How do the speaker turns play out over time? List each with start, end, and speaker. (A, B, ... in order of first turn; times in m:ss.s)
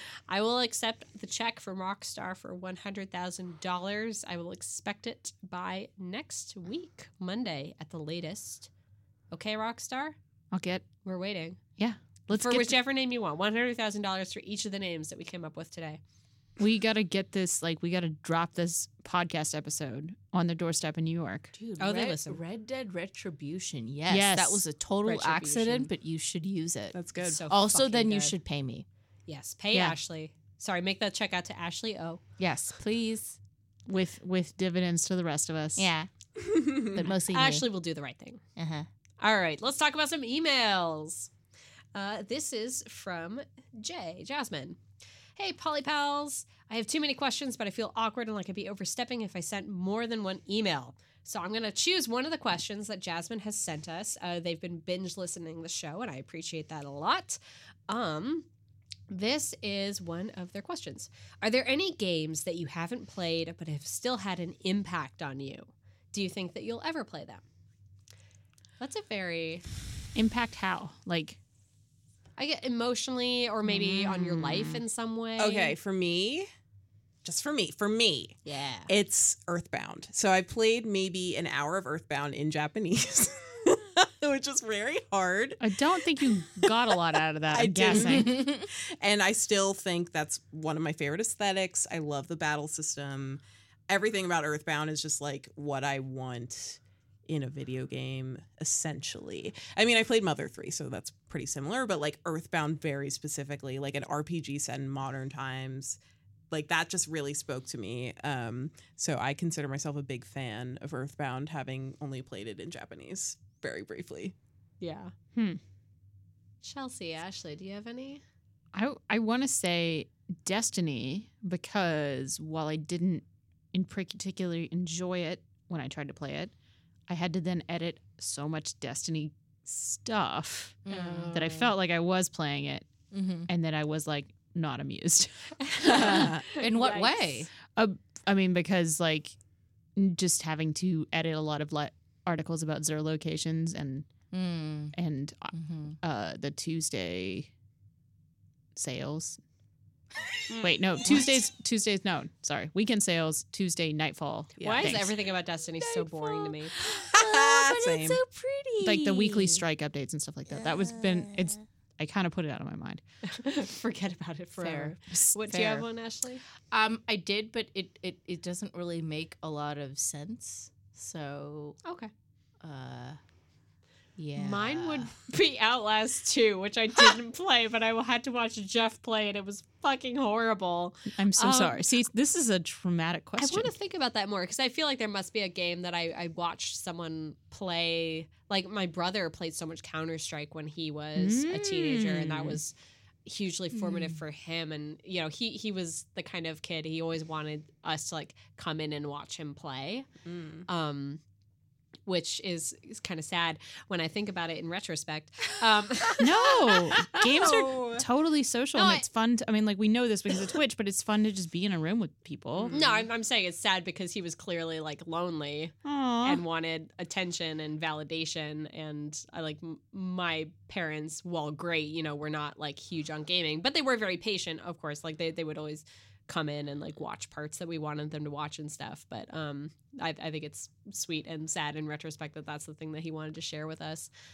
0:00.3-0:08.7 A
0:09.3-0:10.2 A
0:10.5-0:10.9 B
0:11.0-0:11.6 A
0:11.8-0:12.8 B
0:12.3-0:16.0 A
0:16.6-0:21.5 B
0:21.5-0:28.9 C
0:21.8-0:22.4 A
0:24.1-0:24.6 B
0:25.0-0:25.9 A
0:26.9-0:27.4 D
0:27.2-0:28.4 A
0:29.3-0:32.2 A
0:32.4-0:33.4 C
0:33.9-0:35.9 B
0:35.8-0:36.1 C
0:36.4-0:37.1 D
0:36.9-0:37.7 C
0:37.3-0:38.4 A
0:38.6-0:38.9 C
0:39.2-0:41.3 A
0:41.9-0:44.8 A
0:45.4-0:57.4 A
0:57.9-0:58.5 A
0:59.1-1:07.4 A
1:08.8-1:09.6 A
1:10.2-1:11.4 B
1:12.4-1:15.8 A
1:13.7-1:14.8 C
1:15.4-1:16.5 D
1:17.2-1:18.4 D
1:18.4-1:18.9 A
1:18.9-1:27.0 D
1:25.6-1:28.4 B
1:27.5-1:46.0 D
1:27.9-1:28.7 C
1:46.5-1:54.4 D
1:54.8-1:55.1 A
1:55.4-1:55.6 B
1:56.6-1:58.2 A
1:58.7-2:06.5 B
2:07.1-2:12.9 B
2:10.9-2:11.6 C
2:10.9-2:11.7 A
2:13.1-2:13.5 C
2:13.5-2:16.3 B
2:15.6-2:17.4 A
2:16.0-2:17.5 C
2:17.7-2:19.4 B
2:20.0-2:24.1 B
2:24.3-2:24.9 C
2:24.9-2:27.5 B
2:25.5-2:26.0 C
2:28.8-2:29.4 B
2:30.5-2:30.8 A
2:30.6-2:35.1 B
2:34.6-2:35.1 D
2:34.6-2:36.8 A
2:35.8-2:39.6 C
2:37.1-2:38.2 D
2:38.8-2:43.0 B
2:40.5-2:41.6 C
2:43.2-2:46.4 A
2:44.6-2:44.9 C
2:45.1-2:45.8 B
2:46.7-2:51.8 C
2:51.8-2:52.1 A
2:52.6-2:53.2 C
2:54.2-2:55.1 C
2:54.4-3:01.8 A
3:01.2-3:03.7 B
3:03.4-3:20.1 A
3:11.2-3:12.6 B
3:13.7-3:14.2 C
3:20.2-3:20.7 D
3:20.7-3:21.2 A
3:22.1-3:26.3 A
3:26.2-3:32.8 B
3:27.0-3:28.1 D
3:28.8-3:29.1 A
3:32.6-3:33.1 D
3:32.7-3:54.1 A
3:35.8-3:36.4 B